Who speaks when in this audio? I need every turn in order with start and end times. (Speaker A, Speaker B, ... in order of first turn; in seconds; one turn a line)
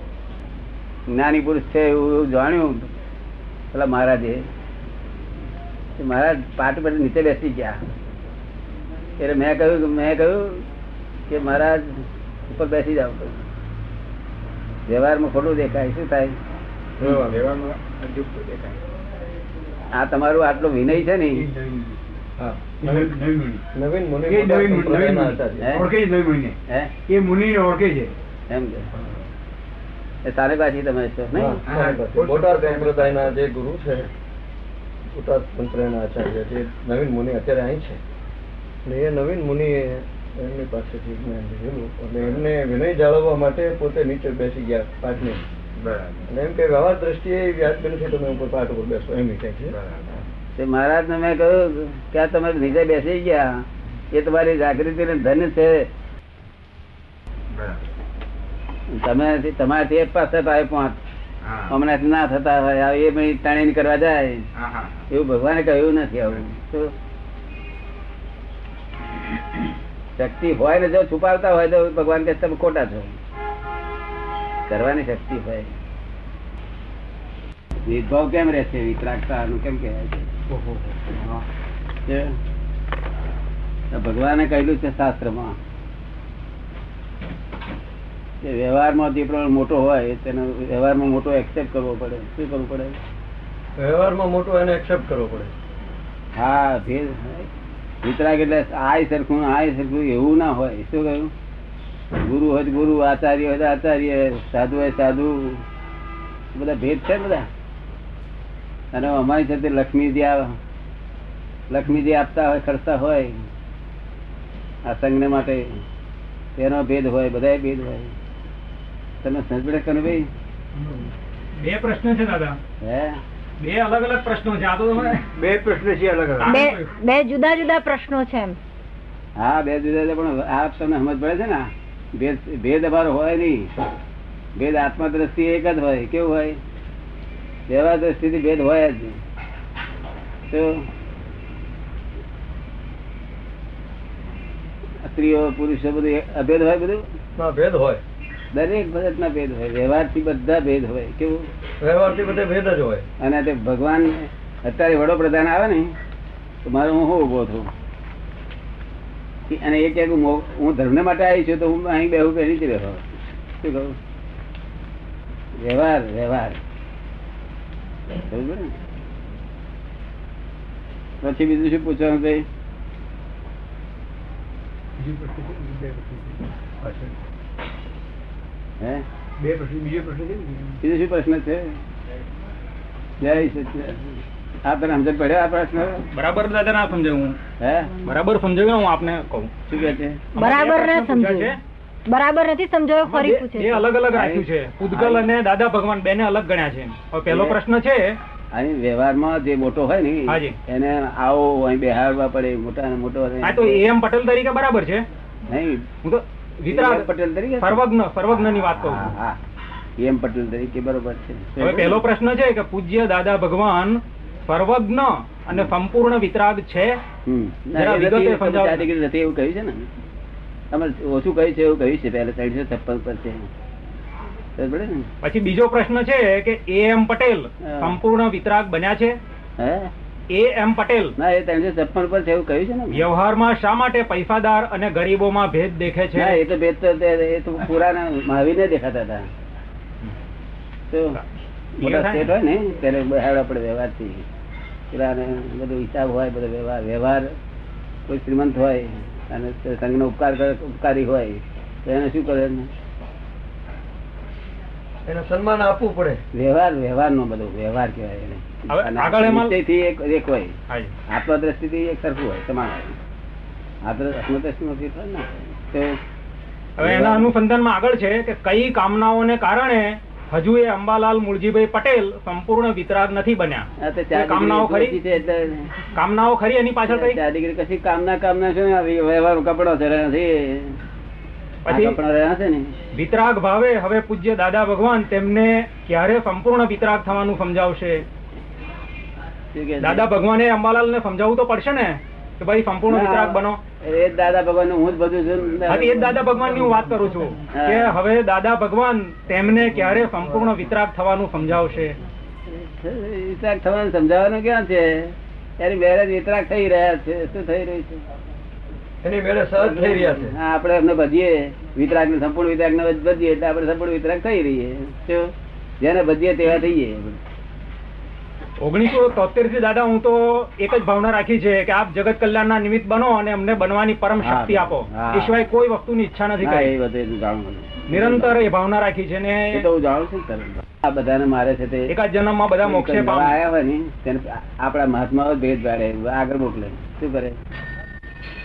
Speaker A: 1.1-2.9
Speaker A: 3.7-4.5
Speaker A: 6.0-7.8
Speaker A: 9.2-10.7
Speaker A: 11.3-13.4
Speaker A: 14.9-16.4
Speaker B: 17.0-17.4
Speaker C: 17.1-18.8
Speaker A: 19.9-21.5
Speaker D: 21.3-22.1
Speaker B: 22.4-23.2
Speaker D: 22.8-23.6
Speaker B: 23.7-25.8
Speaker D: 24.3-28.1
Speaker A: 25.6-25.9
Speaker A: 26.7-26.9
Speaker A: 28.5-28.9
Speaker A: 30.2-31.6
Speaker B: 31.3-34.1
Speaker C: 31.7-33.4
Speaker B: 35.1-38.0
Speaker B: 38.9-45.4
Speaker C: 45.8-46.3
Speaker B: 46.3-49.8
Speaker C: 49.7-50.2
Speaker A: 50.6-55.9
Speaker C: 57.5-57.9
Speaker A: 58.9-61.0
Speaker C: 61.4-61.8
Speaker A: 61.7-64.5
Speaker C: 64.5-65.1
Speaker A: 65.1-66.9
Speaker A: 70.2-73.1
Speaker A: 74.7-75.7
Speaker A: 77.9-80.3
Speaker D: 80.5-81.4
Speaker A: 82.1-82.3
Speaker A: 83.9-85.6
Speaker A: 88.4-93.0
Speaker B: 93.8-95.5
Speaker A: 96.3-97.5
Speaker A: 98.0-101.3
Speaker A: 102.2-105.6
Speaker A: 106.5-107.5
Speaker A: 108.9-110.6
Speaker A: 111.7-113.4
Speaker A: 114.9-115.8
Speaker A: 116.6-118.1
Speaker A: 119.2-120.3
Speaker E: 121.6-122.6
Speaker A: 122.8-123.2
Speaker E: 123.6-125.3
Speaker B: 125.4-126.6
Speaker D: 125.7-126.5
Speaker E: 126.4-126.9
Speaker F: 126.5-128.6
Speaker A: 129.4-133.7
Speaker A: 134.6-136.6
Speaker A: 137.7-139.2
Speaker A: 140.5-140.9
Speaker A: 145.0-147.0
Speaker B: 147.4-148.0
Speaker A: 148.5-151.5
Speaker B: 151.8-153.1
Speaker A: 153.2-155.9
Speaker A: 156.7-157.7
Speaker A: 159.5-163.1
Speaker A: 163.6-164.0
Speaker A: 165.6-166.6
Speaker A: 168.2-168.7
Speaker A: 171.2-172.5
Speaker D: 175.0-176.4
Speaker D: 179.4-180.8
Speaker A: 180.8-181.8
Speaker A: 183.2-186.0
Speaker E: 186.1-187.4
Speaker A: 187.6-187.9
Speaker E: 188.0-189.5
Speaker A: 189.7-190.2
Speaker E: 190.3-191.6
Speaker F: 190.4-191.5
Speaker F: 192.1-193.8
Speaker E: 193.0-198.2
Speaker A: 194.1-195.3
Speaker A: 197.3-197.6
Speaker A: 198.5-203.8
Speaker E: 200.3-200.6
Speaker E: 203.4-205.1
Speaker A: 205.5-205.9
Speaker E: 206.0-207.1
Speaker A: 206.7-207.8
Speaker E: 207.6-209.1
Speaker A: 208.3-209.4
Speaker A: 210.0-212.0
Speaker E: 211.6-217.0
Speaker A: 217.3-219.9
Speaker E: 217.8-218.9
Speaker A: 220.7-223.5
Speaker A: 224.6-225.1
Speaker E: 225.2-229.2
Speaker A: 227.7-228.0
Speaker A: 229.6-229.9
Speaker E: 230.3-231.2
Speaker A: 231.2-233.1
Speaker E: 232.9-236.4
Speaker A: 236.2-239.3
Speaker A: 240.9-241.2
Speaker A: 241.8-244.2
Speaker E: 241.8-242.3
Speaker A: 244.9-247.3
Speaker A: 248.1-252.7
Speaker B: 255.1-256.2
Speaker A: 256.3-260.6
Speaker E: 258.7-259.5
Speaker A: 261.1-263.0
Speaker A: 263.9-266.0
Speaker E: 266.8-275.0
Speaker A: 266.8-267.3
Speaker A: 273.8-275.8
Speaker E: 275.9-277.2
Speaker A: 276.9-280.8
Speaker E: 281.6-282.0
Speaker A: 281.7-282.7
Speaker E: 282.9-288.1
Speaker A: 289.5-290.1
Speaker E: 289.8-293.6
Speaker A: 292.9-296.2
Speaker E: 295.7-302.0
Speaker A: 297.5-297.9
Speaker A: 302.5-308.0
Speaker B: 309.0-310.3
Speaker A: 309.6-317.2
Speaker E: 318.6-326.7
Speaker A: 324.2-325.4
Speaker A: 326.4-328.4
Speaker E: 327.9-329.6
Speaker A: 329.5-331.9
Speaker E: 331.9-333.4
Speaker A: 332.6-337.4